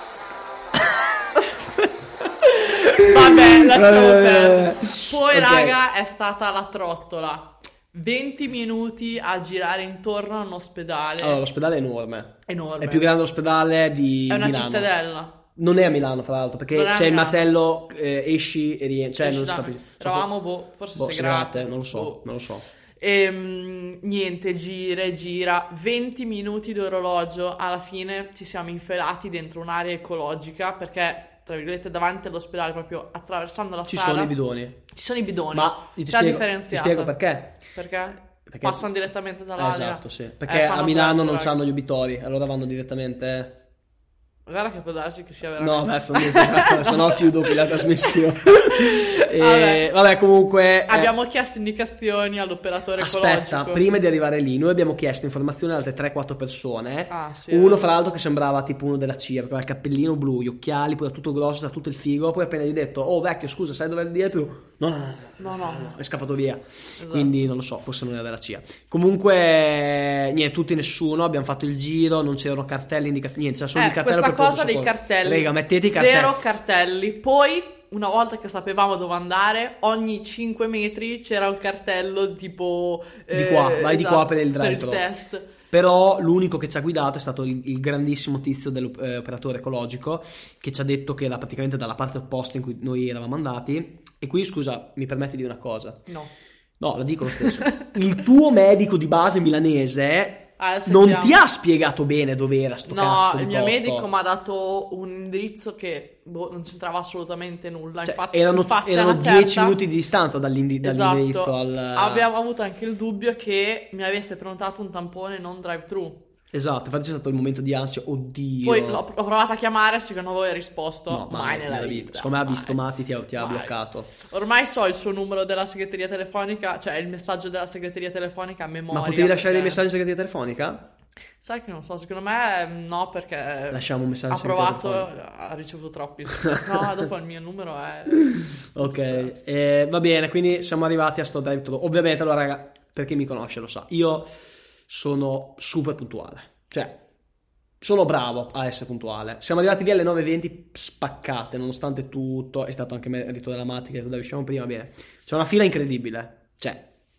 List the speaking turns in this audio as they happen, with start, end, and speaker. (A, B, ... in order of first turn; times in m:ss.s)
0:02.4-0:11.4 A
0:02.8-0:05.8 B
0:11.2-0:14.9 B
0:12.4-0:13.1 A
0:14.3-0:15.3 A
0:15.6-0:20.3 B
0:16.7-0:17.4 A
0:19.2-0:22.2 A
0:21.0-0:22.6 B
0:23.0-0:34.3 A
0:33.9-0:34.8 B
0:34.9-0:41.6 A
0:35.5-0:37.6 B
0:38.5-0:38.9 B
0:39.6-0:43.5 B
0:44.5-0:49.8 A
0:45.6-0:51.1 B
0:50.9-0:53.9 A
0:53.0-1:16.4 B
0:57.1-0:57.9 A
1:05.4-1:05.9 A
1:07.0-1:07.3 A
1:13.8-1:25.5 A
1:23.3-1:25.0 B
1:25.7-1:36.0 B
1:36.8-1:44.1 B
1:37.3-1:37.8 A
1:40.6-1:41.4 A
1:42.9-1:49.8 A
1:48.0-1:52.3 B
1:50.8-1:56.2 A
1:56.5-1:59.0 B
1:58.6-2:02.8 A
2:01.1-2:04.1 B
2:03.3-2:09.8 A
2:08.9-2:10.8 B
2:11.4-2:19.3 A
2:13.7-2:15.1 B
2:16.5-2:16.9 B
2:18.1-2:24.3 B
2:24.9-2:26.9 B
2:27.8-2:36.8 B